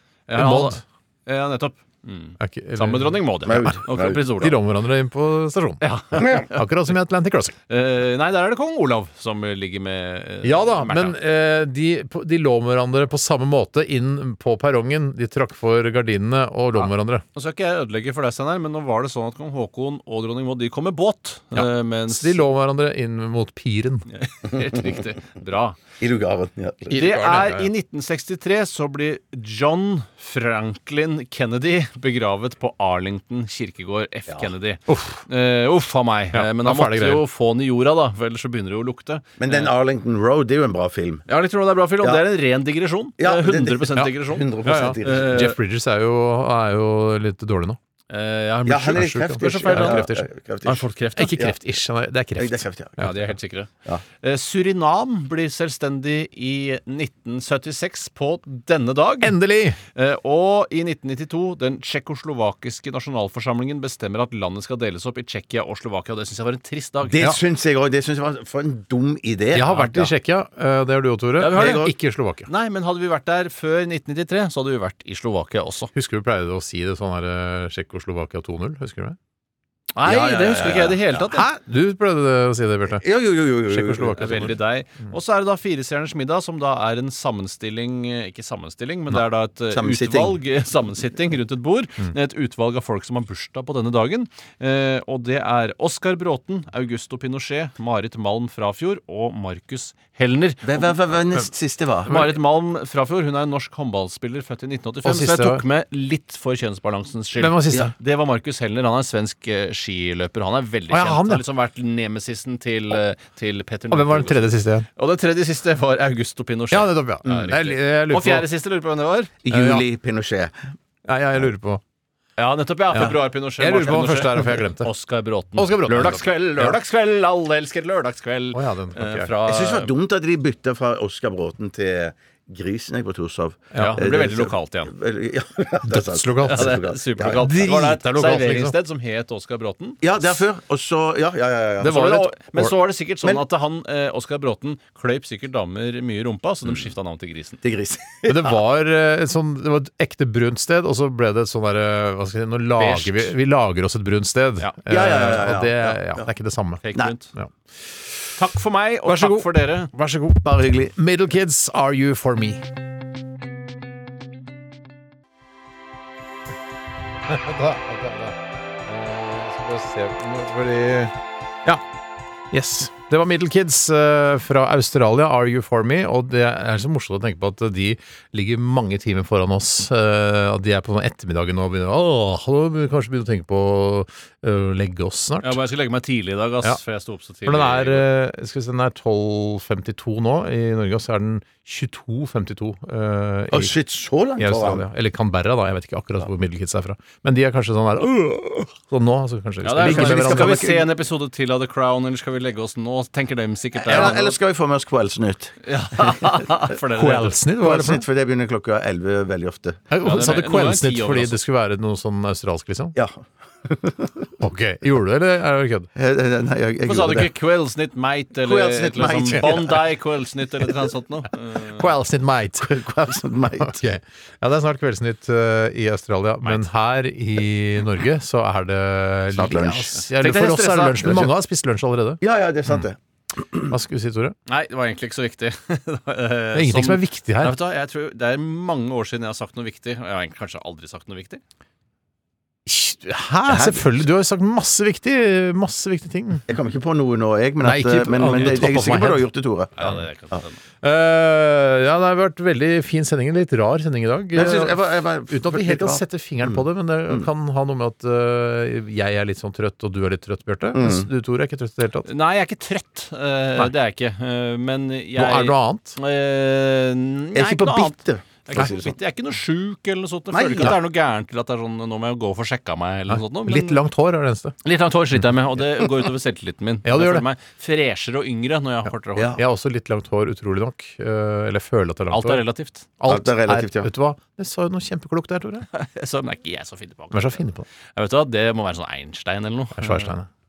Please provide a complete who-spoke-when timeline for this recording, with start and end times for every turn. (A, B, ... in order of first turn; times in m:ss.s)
0:00.3-0:04.6 A
0:00.3-0:00.8 B
0:02.4-0:03.8 B
0:03.4-0:04.2 C
0:04.3-0:07.5 B
0:05.8-0:06.6 A
0:07.7-0:11.2 A
0:10.4-0:17.2 B
0:16.7-0:22.4 A
0:21.5-0:24.1 B
0:24.1-0:25.8 A
0:26.0-0:27.0 C
0:26.9-0:27.7 B
0:26.9-0:39.7 A
0:34.9-0:35.2 B
0:36.3-0:37.2 B
0:39.4-0:41.2 C
0:41.3-0:44.4 A
0:42.0-0:42.2 C
0:43.2-0:45.4 C
0:44.6-0:47.8 B
0:45.0-0:45.6 A
0:48.1-0:50.1 A
0:48.7-0:51.5 C
0:48.9-0:50.3 B
0:50.6-0:51.4 A
0:51.1-0:53.3 B
0:52.4-0:53.0 C
0:53.0-0:53.7 A
0:54.2-0:59.4 A
0:59.2-0:59.8 B
0:59.9-1:07.3 A
1:07.0-1:10.1 C
1:09.5-1:12.5 B
1:11.4-1:11.9 A
1:11.5-1:11.9 C
1:12.4-1:15.9 A
1:15.9-1:19.2 B
1:20.0-1:21.4 A
1:20.0-1:21.1 C
1:21.2-1:23.0 B
1:23.0-1:24.2 C
1:23.7-1:24.6 B
1:24.2-1:40.9 A
1:29.7-1:30.4 C
1:40.6-1:42.1 C
1:42.1-1:42.3 B
1:42.1-1:59.3 A
1:45.0-1:45.6 B
1:47.4-1:47.9 B
1:50.9-1:51.4 B
1:53.9-1:54.9 B
1:56.7-1:58.5 B
1:59.4-2:00.5 C
1:59.5-1:59.8 B
2:01.0-2:01.8 B
2:02.4-2:09.9 A
2:02.9-2:04.9 B
2:05.6-2:06.8 B
2:08.5-2:09.3 B
2:09.4-2:17.5 C
2:13.7-2:14.0 B
2:13.8-2:14.9 A
2:15.8-2:18.7 B
2:16.4-2:20.0 A
2:20.0-2:22.3 C
2:21.8-2:27.6 A
2:27.6-2:28.5 C
2:28.3-2:36.8 B
2:32.8-2:33.3 A
2:34.9-2:36.3 C
2:36.8-2:37.3 A
2:37.3-2:38.3 B
2:38.4-2:39.9 A
2:39.0-2:42.6 B
2:40.4-2:40.9 C
2:47.3-2:51.8 B
2:52.5-3:05.6 B
3:05.4-3:08.0 A
3:07.4-3:13.7 B
3:13.5-3:14.8 C
3:14.4-3:20.6 B
3:19.6-3:24.4 A
3:19.8-3:20.9 C
3:23.8-3:25.6 C
3:25.6-3:27.4 A
3:26.9-3:28.0 B
3:27.6-3:29.8 C
3:29.9-3:33.0 B
3:30.0-3:31.4 A
3:32.9-3:34.3 C
3:34.4-3:35.9 B
3:36.0-3:37.3 C
3:36.8-3:41.8 A
3:38.4-3:39.9 C
3:41.7-3:42.8 B
3:42.6-3:43.8 C
3:43.5-3:52.8 B
3:49.3-3:50.3 C
3:50.1-3:51.2 A
3:51.0-3:51.3 C
3:52.2-3:53.7 C
3:53.7-3:54.4 B
3:54.5-4:01.4 A
3:56.5-3:57.5 B
4:02.6-4:06.4 B
4:03.5-4:03.9 C
4:06.5-4:10.4 C
4:07.6-4:09.3 B
4:09.8-4:10.6 A
4:10.8-4:22.1 B
4:14.3-4:17.3 C
4:20.7-4:21.1 C
4:22.0-4:33.8 A
4:25.2-4:26.0 B
4:27.3-4:28.9 C
4:30.3-4:30.8 C
4:33.1-4:34.5 B
4:34.6-4:39.4 A
4:36.8-4:37.2 B
4:39.3-4:42.4 B
4:42.1-4:42.9 A
4:43.0-4:45.7 B
4:43.1-4:43.9 C
4:45.7-4:47.4 A
4:47.1-4:47.6 B
4:47.9-4:50.1 A
4:49.8-4:50.3 B